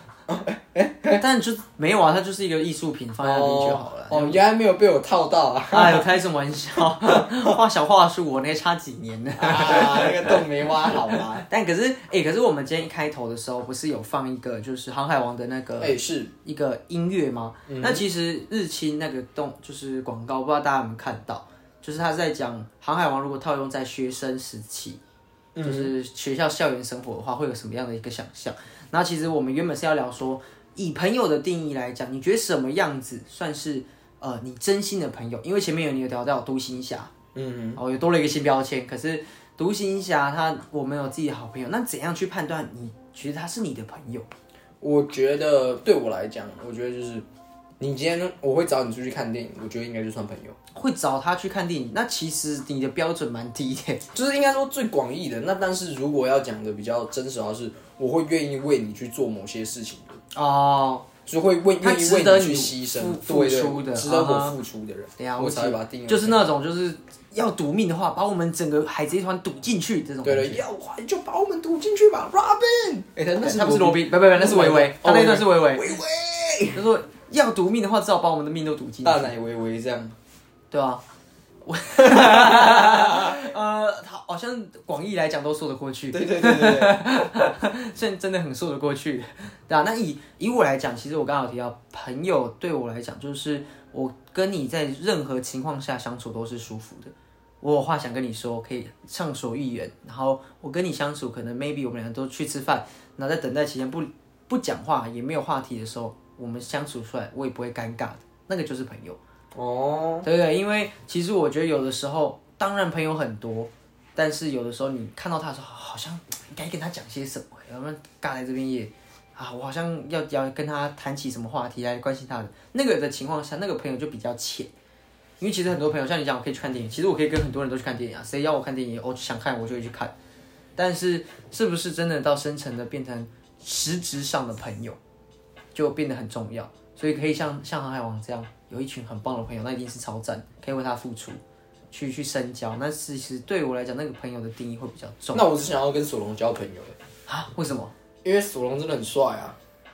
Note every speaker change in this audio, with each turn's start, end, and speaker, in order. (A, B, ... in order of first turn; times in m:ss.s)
0:00.3-0:01.2 A
0:01.2-0:04.4 B
0:03.2-0:06.1 A
0:05.7-0:25.0 B
0:07.0-0:07.6 A
0:09.4-0:11.4 A
0:15.8-0:16.3 A
0:17.7-0:18.0 A
0:25.5-0:25.9 A
0:25.6-0:37.1 B
0:37.3-0:37.8 A
0:37.8-0:44.3 B
0:44.8-0:47.2 A
0:47.8-0:50.6 A
0:50.7-0:54.0 B
0:54.1-1:00.2 A
1:00.3-1:01.1 B
1:01.2-1:06.5 A
1:01.8-1:04.6 B
1:05.2-1:10.6 B
1:10.2-1:16.8 A
1:13.4-1:15.9 B
1:16.7-1:19.3 B
1:19.0-1:20.2 A
1:20.7-1:21.0 B
1:21.6-1:49.2 B
1:22.0-1:23.5 A
1:26.1-1:27.0 A
1:49.5-1:50.3 A
1:50.2-2:04.7 B
2:05.4-2:10.1 B
2:10.8-2:15.0 B
2:15.7-2:21.4 B
2:21.9-2:25.4 B
2:25.3-2:27.0 A
2:27.3-2:27.9 B
2:28.2-2:29.6 A